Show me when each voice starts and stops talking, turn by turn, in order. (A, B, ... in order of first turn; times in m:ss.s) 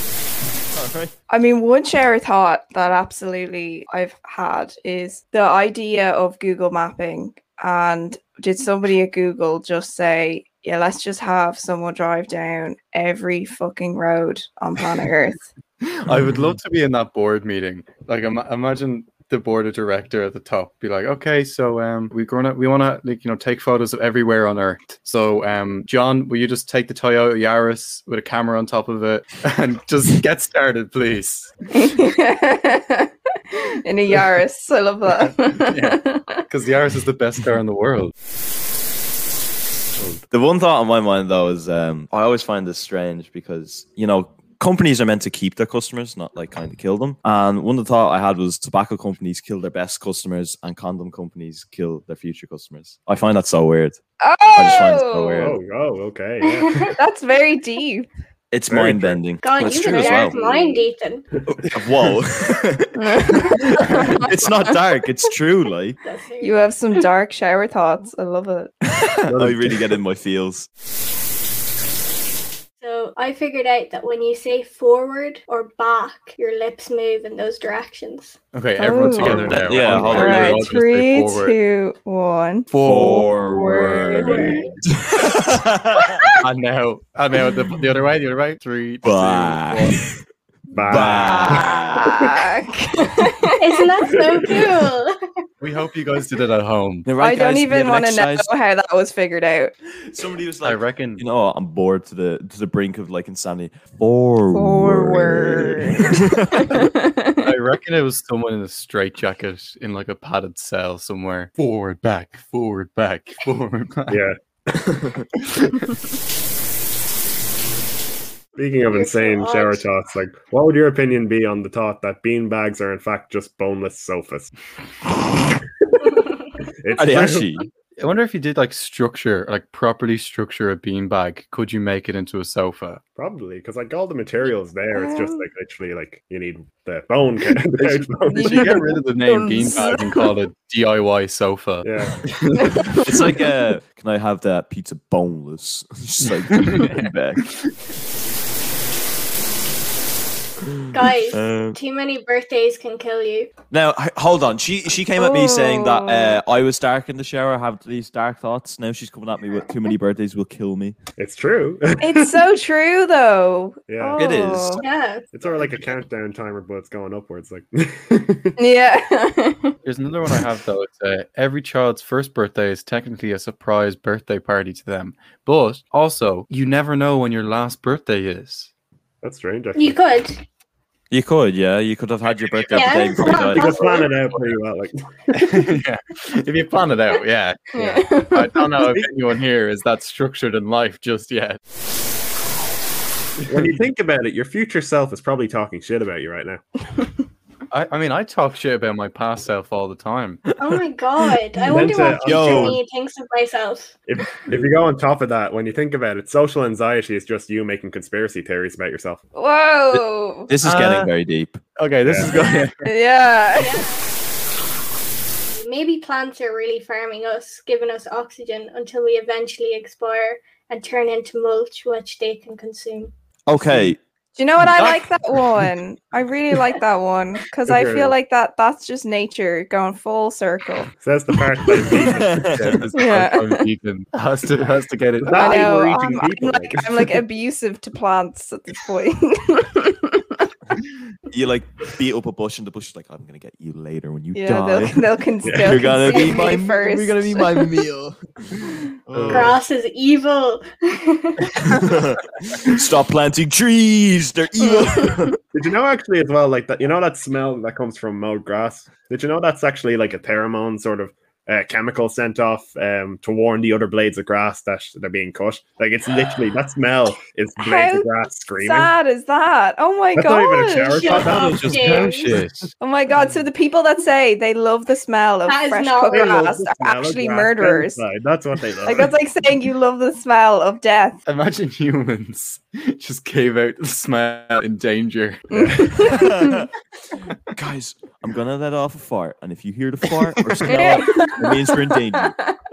0:00.7-0:01.1 A
0:01.3-0:15.5 B
0:15.9-0:31.5 C
0:31.7-0:33.1 B
0:33.8-0:36.4 B
0:35.2-0:38.1 C
0:40.3-0:54.0 A
0:54.2-0:55.5 B
0:54.5-0:55.6 A
0:55.4-0:56.8 D
0:56.5-0:56.8 E
0:57.0-0:58.1 B
0:58.5-1:00.8 A
0:58.7-1:00.6 D
0:59.4-1:01.3 E
1:01.5-1:06.0 A
1:03.0-1:04.7 B
1:06.0-1:07.0 E
1:06.4-1:08.7 B
1:09.0-1:10.7 A
1:09.3-1:09.8 D
1:12.8-1:18.4 E
1:18.5-1:21.6 C
1:18.8-1:19.5 B
1:19.2-1:20.6 A
1:20.1-1:22.7 B
1:22.7-1:24.4 C
1:22.8-1:26.2 A
1:23.4-1:24.6 B
1:24.2-1:24.6 E
1:26.4-1:30.0 C
1:29.0-1:30.0 A
1:30.7-1:31.6 D
1:30.9-1:32.2 A
1:31.2-1:33.6 B
1:33.6-1:35.2 E
1:35.6-1:37.1 C
1:37.0-1:38.5 A
1:37.2-1:39.7 B
1:40.0-1:46.6 A
1:40.6-1:41.2 C
1:44.5-1:46.1 B
1:46.7-1:47.5 B
1:47.4-1:54.2 C
1:54.1-1:55.2 D
1:58.6-2:04.5 D
1:58.8-1:59.8 E
2:06.8-2:07.6 D
2:07.0-2:07.6 A
2:08.0-2:13.0 C
2:13.2-2:18.9 D
2:14.9-2:15.4 B
2:17.9-2:23.2 C
2:18.3-2:20.3 B
2:21.8-2:22.2 D
2:23.0-2:27.4 A
2:26.6-2:27.0 C
2:30.9-2:33.5 E
2:31.3-2:31.8 A
2:33.7-2:41.0 A
2:35.2-2:36.4 B
2:41.2-2:42.2 D
2:42.0-2:44.8 B
2:43.9-2:44.2 D
2:44.2-2:44.8 A
2:44.8-2:45.2 E
2:45.3-2:48.5 D
2:48.6-2:49.7 B
2:49.8-2:58.7 C
2:59.2-3:00.0 D
2:59.7-3:00.4 E
3:01.1-3:03.7 A
3:02.7-3:04.1 E
3:02.8-3:05.6 D
3:05.3-3:11.6 C
3:07.8-3:08.5 B
3:13.5-3:13.8 C
3:13.5-3:16.6 D
3:17.7-3:20.4 C
3:20.6-3:24.0 E
3:21.6-3:22.8 D
3:22.2-3:22.8 A
3:24.0-3:29.2 D
3:29.3-3:30.5 B
3:29.9-3:31.6 A
3:30.6-3:31.1 C
3:31.8-3:32.9 C
3:32.0-3:32.4 D
3:32.4-3:32.7 E
3:32.8-3:33.8 B
3:33.5-3:34.0 E
3:35.6-3:43.1 E
3:43.5-3:44.0 A
3:44.4-3:50.9 B
3:44.8-3:45.0 A
3:47.7-3:48.1 D
3:51.0-3:52.5 D
3:51.9-3:52.8 A
3:52.5-3:55.7 C
3:52.9-3:53.6 B
3:55.2-3:57.2 D
3:55.4-4:00.2 B
4:01.3-4:08.2 A
4:04.3-4:07.7 B
4:05.4-4:06.2 D
4:09.1-4:09.6 D
4:09.1-4:09.5 C
4:09.3-4:11.6 E
4:11.7-4:15.3 A
4:14.7-4:15.1 B
4:15.5-4:28.9 D
4:27.6-4:32.1 B
4:30.1-4:32.0 D
4:31.0-4:32.4 E
4:31.2-4:32.7 C
4:32.8-4:38.0 B
4:35.4-4:36.3 E
4:36.0-4:39.1 D
4:38.8-4:41.2 B
4:41.2-4:45.7 C
4:45.5-4:46.3 B
4:46.1-4:46.6 A
4:47.6-4:52.4 A
4:50.4-4:50.7 C
4:50.7-4:51.6 B